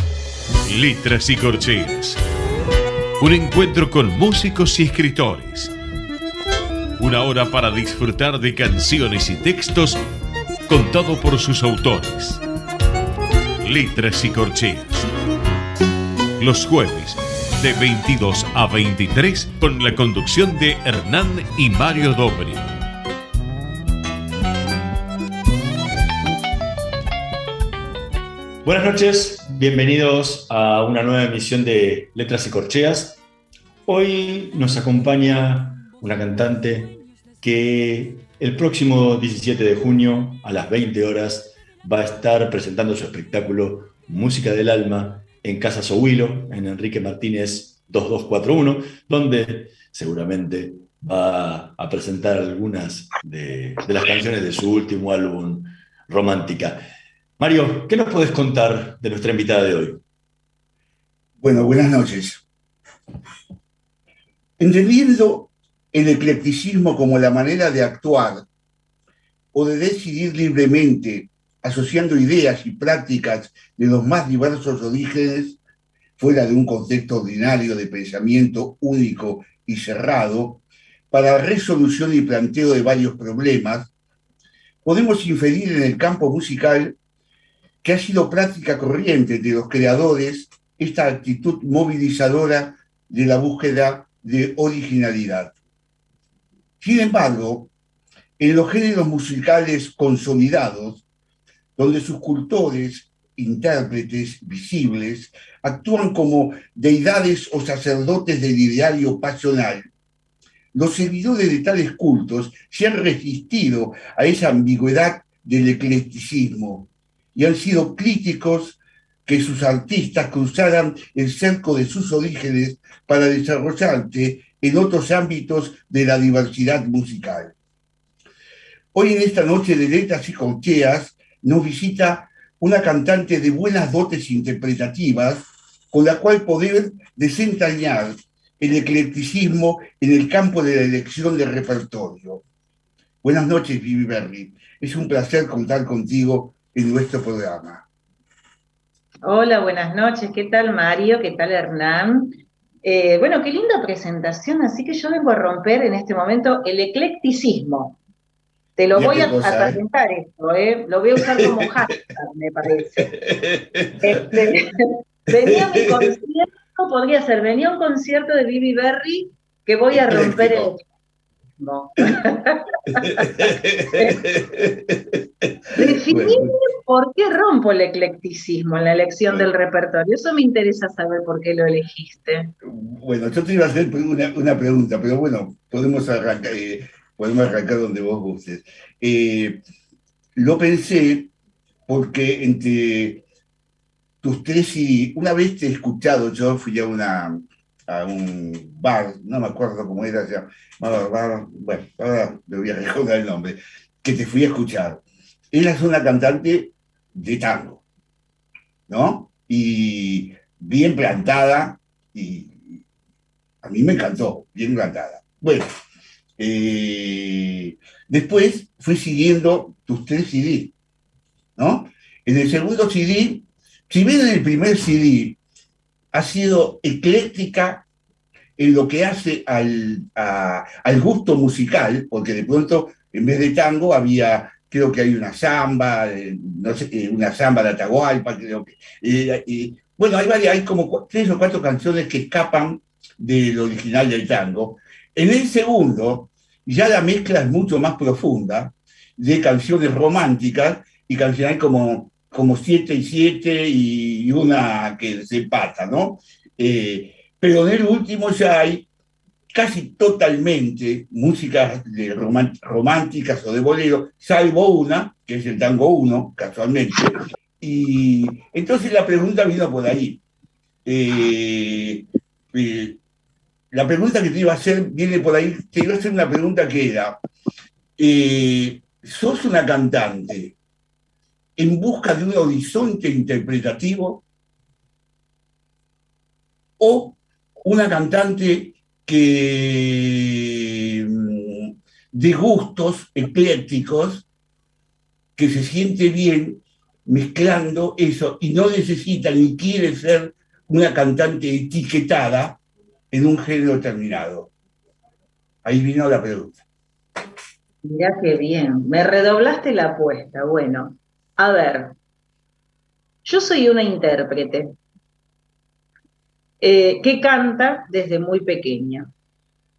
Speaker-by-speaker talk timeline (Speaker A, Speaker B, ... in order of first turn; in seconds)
Speaker A: 0.6-2.2, 3.2-5.7, 7.0-10.0, 10.7-12.4, 13.6-15.1, 16.4-22.7
Speaker B: 28.6-33.2, 33.9-56.8, 57.4-60.0
Speaker C: 61.4-62.4, 64.6-68.5, 69.5-75.6, 76.2-83.9, 84.8-87.0, 87.8-95.5, 96.8-97.7, 98.4-101.0, 101.8-109.9, 110.7-127.5, 128.9-142.4, 143.2-147.8, 158.9-159.8, 163.0-164.4, 165.5-166.0, 169.9-170.7, 172.9-176.5, 182.6-189.6, 190.3-191.3, 191.9-193.2, 194.2-207.8, 208.9-212.8, 213.6-215.8, 216.4-220.7, 221.6-225.4, 226.1-227.8, 228.6-258.9, 259.5-270.2, 270.8-273.0, 273.7-277.2, 278.0-280.6, 281.6-284.2, 286.8-294.2, 295.4-302.6, 303.1-304.5, 305.6-306.6
Speaker D: 149.2-158.0, 158.8-163.1, 164.0-170.8, 171.6-174.2, 175.7-182.5, 307.8-311.9, 313.2-314.8, 316.6-319.1